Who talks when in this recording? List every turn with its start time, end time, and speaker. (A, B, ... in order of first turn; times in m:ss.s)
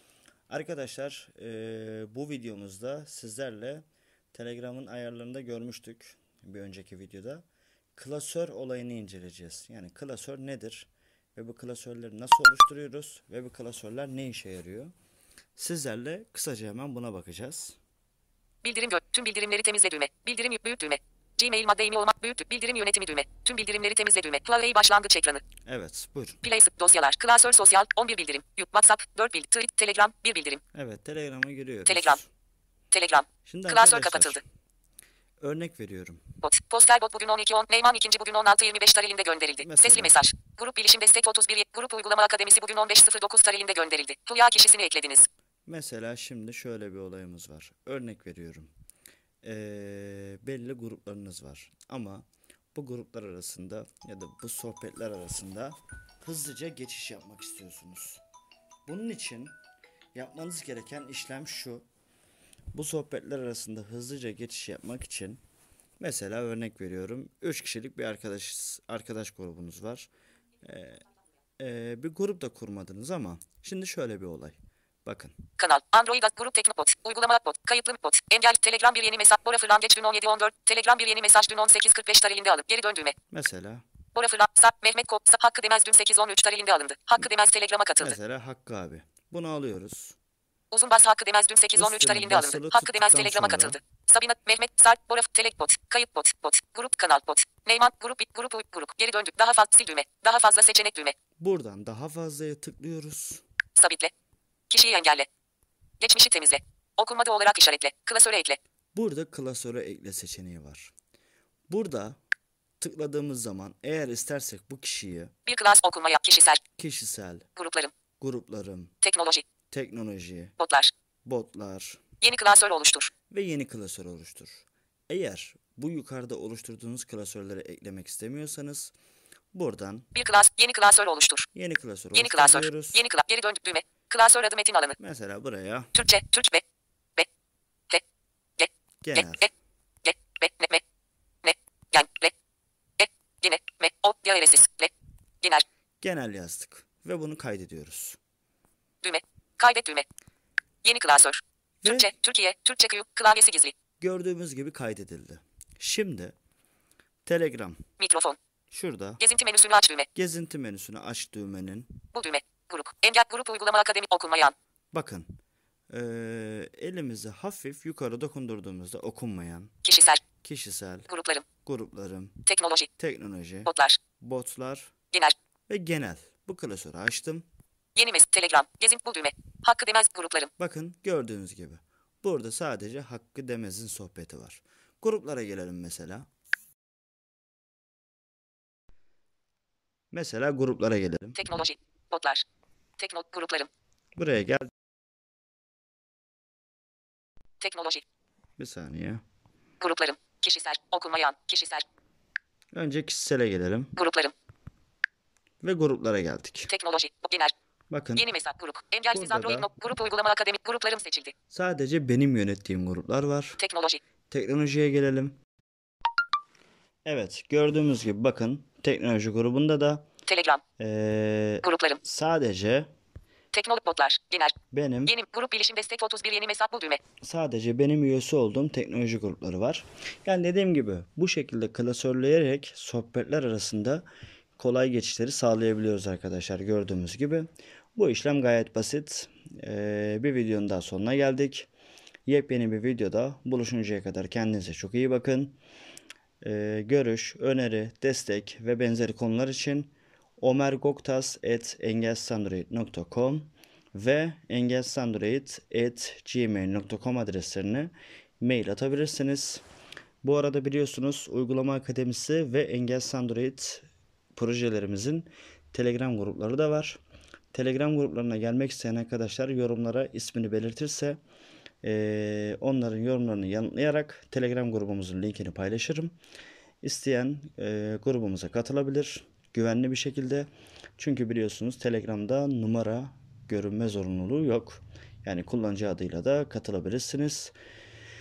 0:00.5-0:07.4 A
0:08.0-0:14.9 A
0:15.6-0:17.8 A
0:18.6-0:25.4 B
0:25.6-0:26.4 A
0:26.4-0:30.6 B
0:30.7-0:32.3 A
0:31.9-0:32.2 B
0:32.9-0:34.4 B
0:33.4-0:34.4 A
0:35.4-0:36.2 A
0:36.4-0:45.3 B
0:39.6-0:40.2 A
0:45.6-0:48.7 A
0:49.4-0:58.2 A
0:58.9-0:59.5 A
1:00.1-1:01.8 A
1:02.7-1:05.4 A
1:06.0-1:10.1 A
1:10.6-1:11.0 A
1:11.6-1:15.4 A
1:15.6-1:23.1 B
1:23.3-1:23.8 A
1:24.1-1:28.2 B
1:28.0-1:30.2 A
1:30.7-1:41.2 B
1:31.7-1:33.8 A
1:41.4-1:43.4 A
1:43.8-1:44.1 B
1:44.7-1:45.3 B
1:46.0-1:48.6 B
1:48.9-1:50.9 A
1:51.7-1:52.2 A
1:52.8-1:55.3 A
1:55.4-1:56.6 B
1:56.8-1:57.4 A
1:57.6-1:57.9 B
1:58.2-1:58.9 A
1:59.0-1:59.4 B
1:59.7-2:00.5 A
2:00.6-2:00.9 B
2:01.2-2:02.0 A
2:02.2-2:03.1 B
2:03.3-2:08.9 A
2:09.5-2:10.1 A
2:10.1-2:11.5 B
2:11.5-2:13.0 A
2:12.1-2:15.0 B
2:15.0-2:15.9 A
2:15.9-2:16.6 B
2:18.6-2:19.5 B
2:19.0-2:19.5 A
2:20.0-2:20.8 B
2:21.4-2:22.3 B
2:23.0-2:25.6 B
2:26.0-2:28.2 A
2:29.0-2:30.1 B
2:30.8-2:33.8 B
2:31.8-2:32.1 A
2:34.0-2:36.3 A
2:37.2-2:37.8 A
2:38.0-2:38.4 B
2:38.7-2:39.2 A
2:39.2-2:40.1 B
2:40.1-2:42.0 A
2:42.1-2:44.5 B
2:44.9-2:45.3 A
2:45.9-2:49.7 A
2:49.8-2:50.2 B
2:50.4-2:51.1 A
2:51.1-2:51.4 B
2:51.6-2:52.4 A
2:52.5-2:52.9 B
2:53.0-2:54.9 A
2:53.6-2:54.0 B
2:55.7-2:57.5 A
2:58.0-3:00.5 B
3:00.6-3:06.3 A
3:10.1-3:11.4 A
3:11.4-3:12.4 B
3:13.0-3:13.7 B
3:14.2-3:14.7 A
3:17.6-3:18.0 B
3:18.6-3:19.2 A
3:19.8-3:21.8 B
3:22.7-3:23.9 A
3:24.0-3:24.3 B
3:25.6-3:26.7 A
3:26.7-3:27.5 B
3:27.9-3:28.3 A
3:28.2-3:31.3 B
3:29.1-3:29.7 A
3:31.5-3:33.6 A
3:33.6-3:34.0 B
3:34.3-3:35.4 A
3:37.0-3:40.0 A
3:40.2-3:40.6 B
3:40.8-3:42.9 A
3:41.6-3:42.0 B
3:43.5-3:44.5 B
3:44.7-3:45.2 A
3:45.1-3:47.0 B
3:47.2-3:54.0 A
3:54.6-4:01.7 A
4:02.3-4:05.6 A
4:06.4-4:19.6 A
4:20.2-4:27.0 A
4:27.5-4:31.2 A
4:31.8-4:36.1 A
4:36.8-4:47.5 A